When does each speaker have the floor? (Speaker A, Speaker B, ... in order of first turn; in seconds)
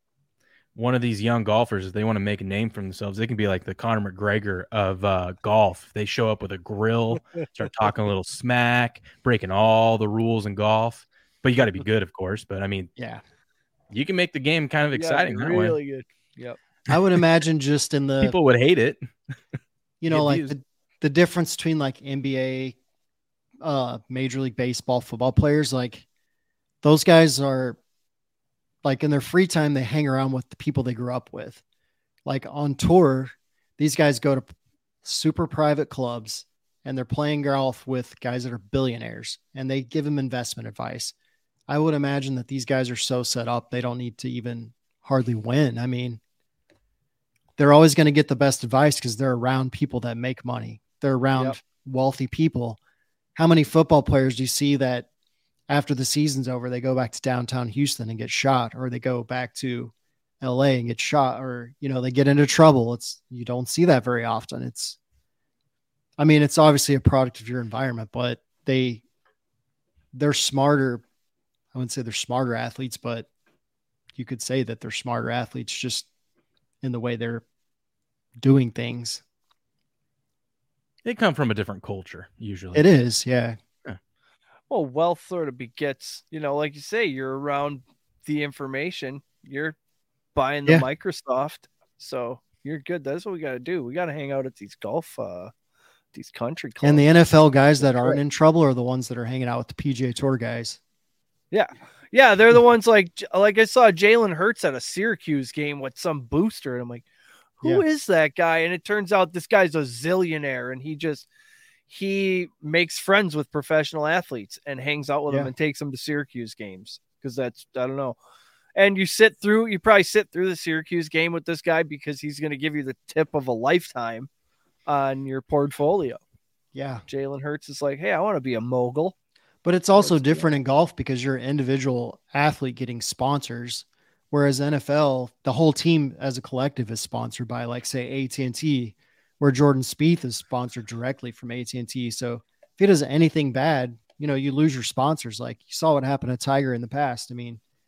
Speaker A: 0.7-12.9, 13.9-15.8, 18.2-19.1, 20.1-20.5, 81.0-82.8
Speaker B: 12.9-13.2, 16.9-18.4, 20.0-22.8, 23.6-26.1, 26.8-27.8, 28.8-31.6, 32.2-34.5, 35.0-41.1, 41.7-46.2, 47.6-52.8, 53.4-55.1, 55.7-65.0, 66.2-69.0, 70.1-71.0, 71.7-73.3, 74.1-76.1, 76.8-77.4, 78.4-79.2, 82.7-83.6, 96.8-100.8, 126.7-127.0, 129.6-147.6
Speaker C: 14.9-16.6, 84.7-89.8, 90.3-95.5, 96.1-97.0, 97.8-98.2, 101.5-107.0, 107.6-111.3, 111.9-118.2, 118.8-124.3, 124.8-126.2, 127.1-129.1, 130.0-130.5